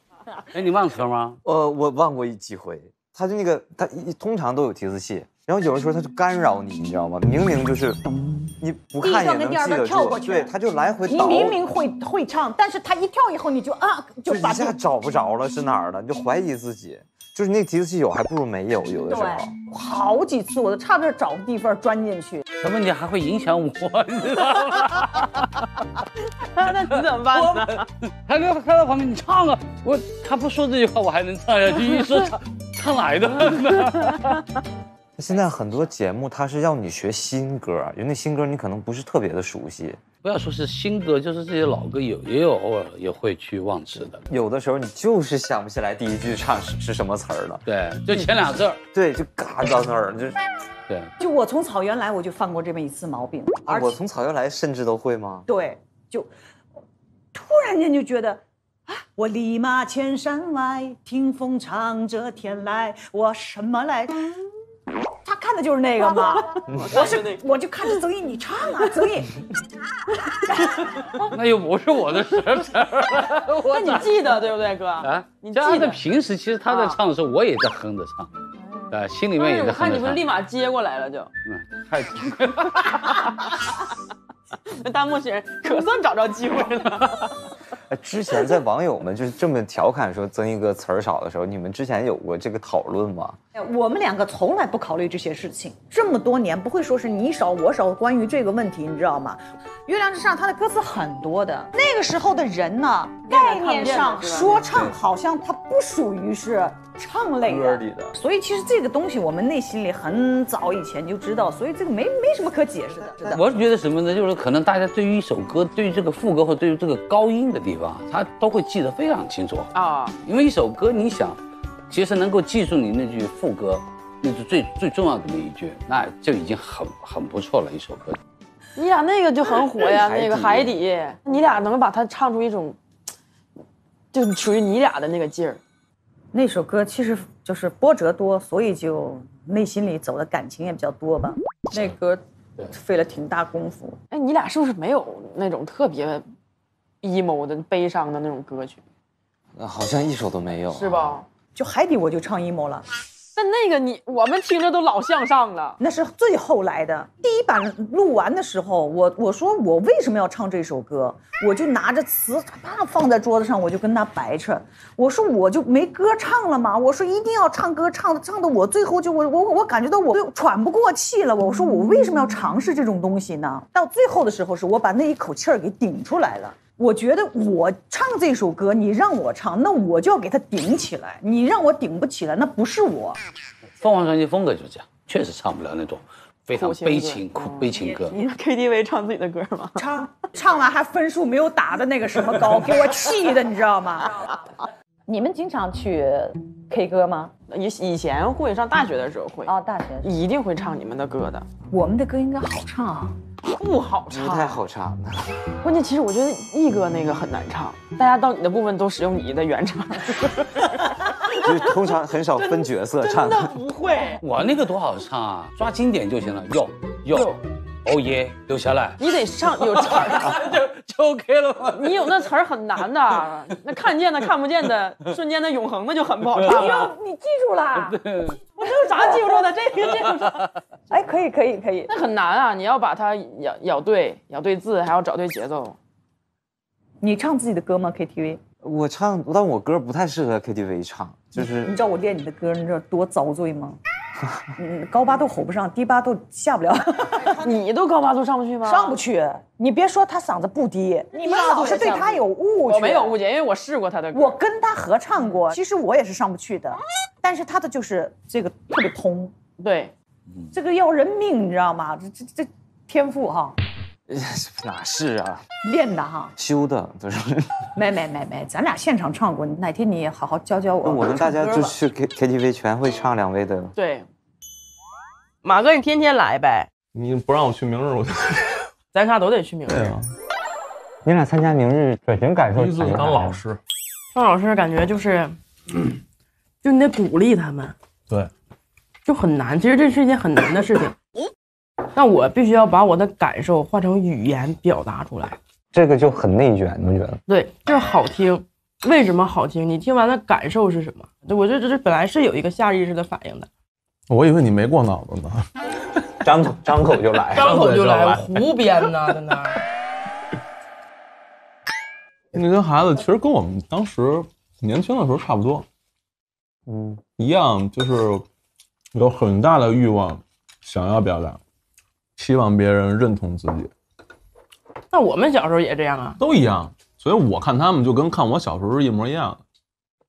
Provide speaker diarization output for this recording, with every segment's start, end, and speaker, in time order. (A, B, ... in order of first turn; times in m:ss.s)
0:00.5-0:01.4 A
0:01.4-0:11.6 B
0:09.0-0:10.5 C
0:11.1-0:14.8 C
0:14.3-0:19.5 B
0:19.1-0:22.4 C
0:22.6-0:25.4 A
0:26.6-0:27.8 D
0:27.3-0:27.6 A
0:28.2-0:34.2 A
0:35.2-0:40.0 B
0:40.2-0:44.2 A
0:44.3-0:50.4 B
0:47.7-0:48.8 A
0:51.2-0:54.0 C
0:53.6-0:55.5 B
0:55.5-0:56.3 C
0:57.3-1:04.2 C
1:05.2-1:09.3 C
1:06.8-1:07.4 D
1:11.2-1:14.4 A
1:13.6-1:16.0 D
1:15.0-1:18.3 A
1:16.7-1:17.0 D
1:18.9-1:20.2 A
1:19.4-1:21.3 D
1:21.4-1:22.9 A
1:23.0-1:23.7 D
1:24.7-1:27.4 D
1:27.9-1:33.4 B
1:33.5-1:53.6 C
1:43.3-1:44.8 D
1:47.5-1:47.8 B
1:47.5-1:48.2 E
1:53.3-1:59.7 A
1:59.7-2:00.2 D
2:00.2-2:01.4 A
2:01.9-2:08.2 A
2:08.8-2:12.8 D
2:09.9-2:10.7 B
2:14.1-2:15.6 D
2:16.3-2:24.0 C
2:24.1-2:26.3 D
2:27.0-2:28.8 D
2:29.6-2:31.0 B
2:30.7-2:31.3 D
2:31.6-2:32.8 C
2:33.4-2:35.8 D
2:35.8-3:03.2 C
3:03.8-3:08.2 A
3:06.5-3:09.8 D
3:09.8-3:14.2 C
3:15.1-3:17.3 C
3:17.5-3:21.5 D
3:19.5-3:20.1 C
3:21.7-3:23.2 C
3:23.5-3:24.6 D
3:24.1-3:25.4 B
3:25.6-3:31.4 D
3:31.4-3:33.6 B
3:33.0-3:34.2 D
3:34.2-3:39.0 A
3:37.1-3:37.4 D
3:39.0-3:40.5 D
3:39.7-3:42.1 A
3:41.7-3:46.9 D
3:46.4-3:48.0 C
3:47.7-3:48.4 A
3:48.6-3:50.4 D
3:48.6-3:49.5 C
3:50.9-3:51.9 C
3:51.9-3:55.8 D
3:57.0-3:58.4 C
3:58.6-4:01.8 B
4:01.4-4:03.8 C
4:04.6-4:07.5 C
4:07.4-4:09.0 D
4:08.6-4:13.2 C
4:11.2-4:14.4 D
4:14.1-4:19.3 C
4:19.6-4:19.9 D
4:20.5-4:23.6 C
4:24.1-4:25.4 B
4:25.6-4:26.3 C
4:26.4-4:27.6 B
4:27.8-4:31.8 C
4:30.8-4:33.7 B
4:31.4-4:31.7 D
4:33.8-4:34.1 D
4:35.4-4:36.7 D
4:36.9-4:38.7 E
4:38.9-4:39.9 D
4:39.7-4:40.1 E
4:41.0-4:43.4 B
4:42.5-4:43.6 E
4:44.2-4:45.4 D
4:46.6-4:47.7 D
4:49.1-4:51.0 D
4:52.0-4:55.4 D
4:55.7-4:57.2 B
4:57.3-5:03.5 D
5:04.1-5:05.5 E
5:06.2-5:07.6 B
5:07.4-5:09.6 D
5:07.4-5:08.5 E
5:12.3-5:15.6 E
5:16.7-5:17.0 B
5:17.2-5:18.3 E
5:18.9-5:21.4 E
5:22.2-5:23.7 E
5:24.9-5:26.2 D
5:26.2-5:29.4 E